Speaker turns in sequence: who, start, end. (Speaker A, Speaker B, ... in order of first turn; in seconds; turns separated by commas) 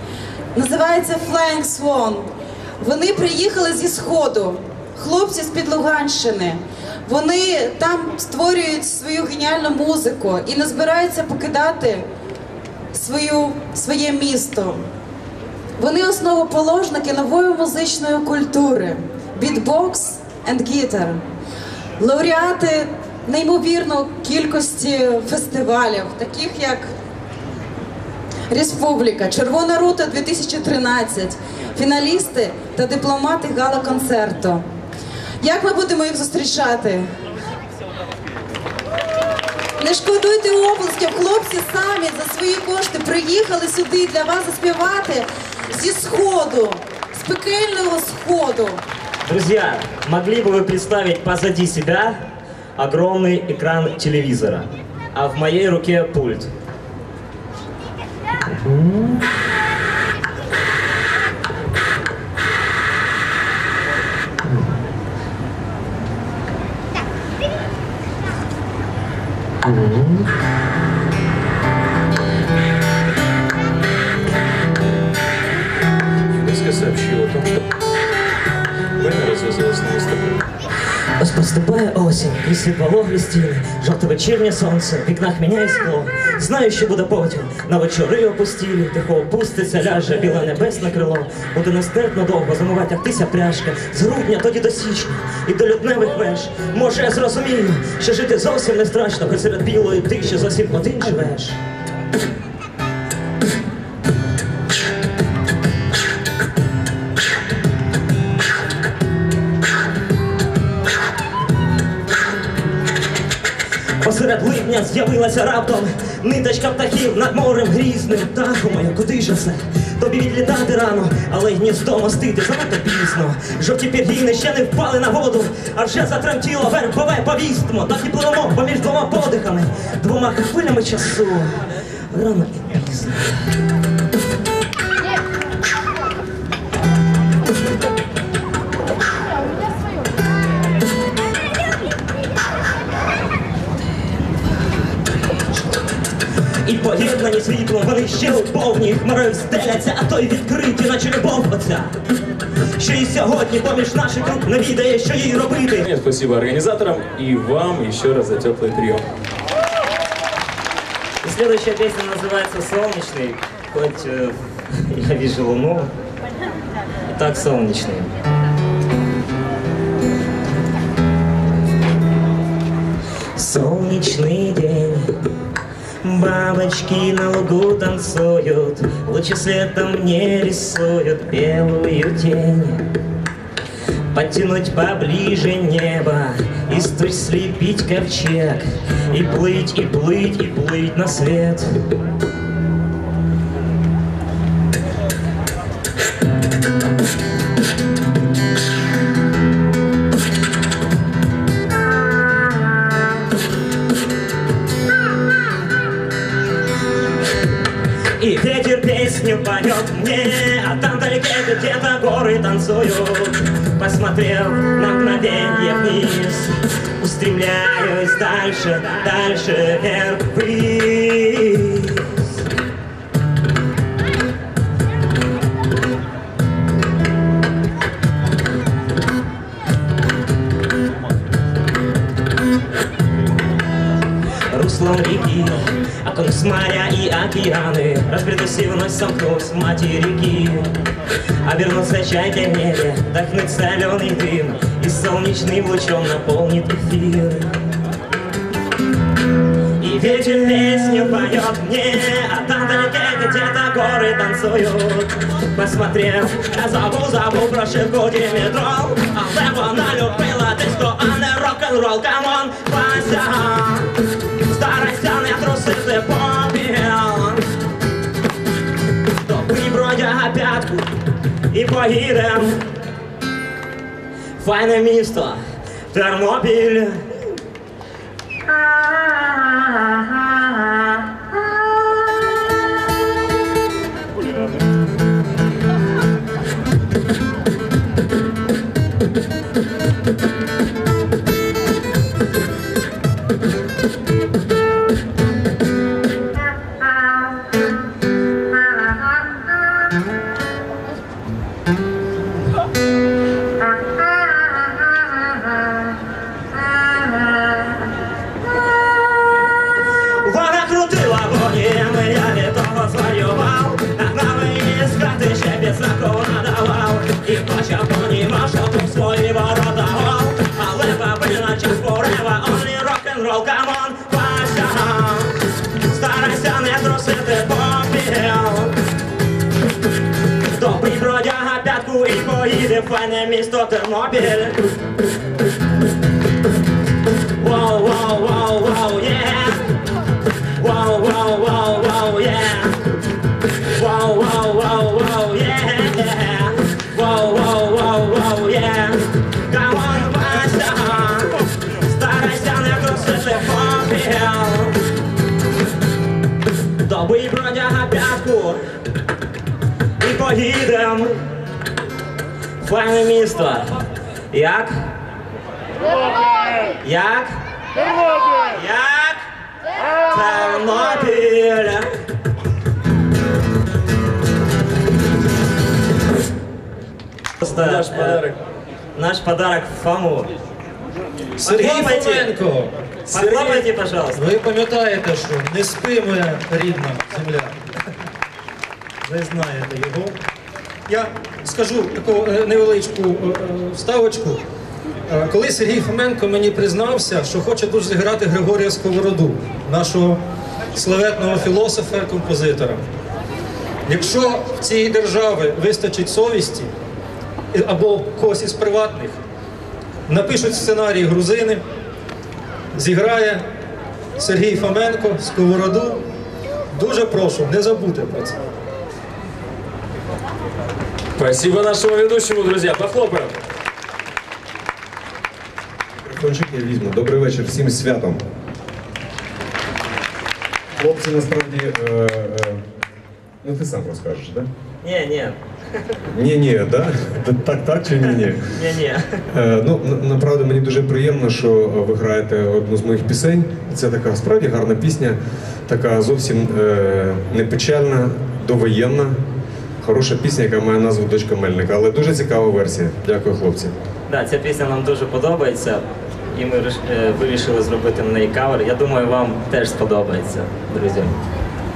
Speaker A: 0.5-12.1, Speaker A: 12.9-14.9, Speaker A: 15.8-21.2, Speaker A: 22.0-26.9, Speaker A: 28.5-34.6, Speaker A: 35.4-37.1, Speaker A: 39.8-48.8, Speaker B: 49.2-52.2, Speaker B: 52.8-56.5, Speaker C: 69.7-70.2, Speaker C: 76.3-77.6, Speaker C: 79.0-80.4, Speaker B: 81.2-101.6, Speaker B: 114.0-131.6, Speaker B: 132.1-133.5, Speaker B: 146.6-151.9, Speaker B: 152.8-155.8, Speaker C: 155.8-159.0, Speaker B: 161.2-165.9, Speaker B: 167.1-168.1, Speaker B: 173.4-175.1, Speaker B: 176.0-182.8, Speaker B: 184.1-191.7, Speaker B: 208.2-222.4, Speaker B: 234.5-240.7, Speaker B: 241.4-247.5, Speaker B: 249.8-263.9, Speaker B: 264.5-267.4, Speaker B: 269.3-270.9, Speaker B: 271.5-272.6, Speaker B: 274.4-275.4, Speaker B: 275.9-277.0, Speaker B: 310.2-328.8, Speaker B: 330.5-334.6, Speaker B: 337.4-339.7, Speaker B: 340.6-342.8, Speaker B: 343.8-354.8, Speaker B: 356.9-358.6, Speaker B: 360.0-361.1, Speaker B: 362.6-363.7, Speaker B: 364.3-364.7, Speaker B: 366.8-367.3, Speaker B: 368.5-369.2, Speaker B: 370.1-371.9, Speaker B: 377.4-378.3, Speaker C: 377.4-378.4, Speaker B: 379.0-380.3, Speaker B: 381.4-382.3, Speaker D: 381.4-387.6, Speaker B: 383.1-384.2, Speaker D: 389.0-390.1, Speaker D: 390.9-394.4, Speaker D: 395.1-400.2, Speaker D: 400.7-402.8, Speaker D: 403.9-406.7, Speaker D: 407.5-409.2, Speaker D: 410.1-411.6, Speaker D: 412.7-413.4, Speaker D: 414.2-416.0, Speaker D: 416.7-418.4, Speaker C: 421.2-423.4, Speaker E: 426.0-428.2, Speaker E: 430.8-432.6, Speaker E: 433.4-434.5, Speaker B: 434.8-435.4, Speaker E: 436.1-438.6, Speaker B: 438.5-439.2, Speaker E: 439.3-449.2, Speaker E: 449.8-453.8, Speaker B: 454.1-461.2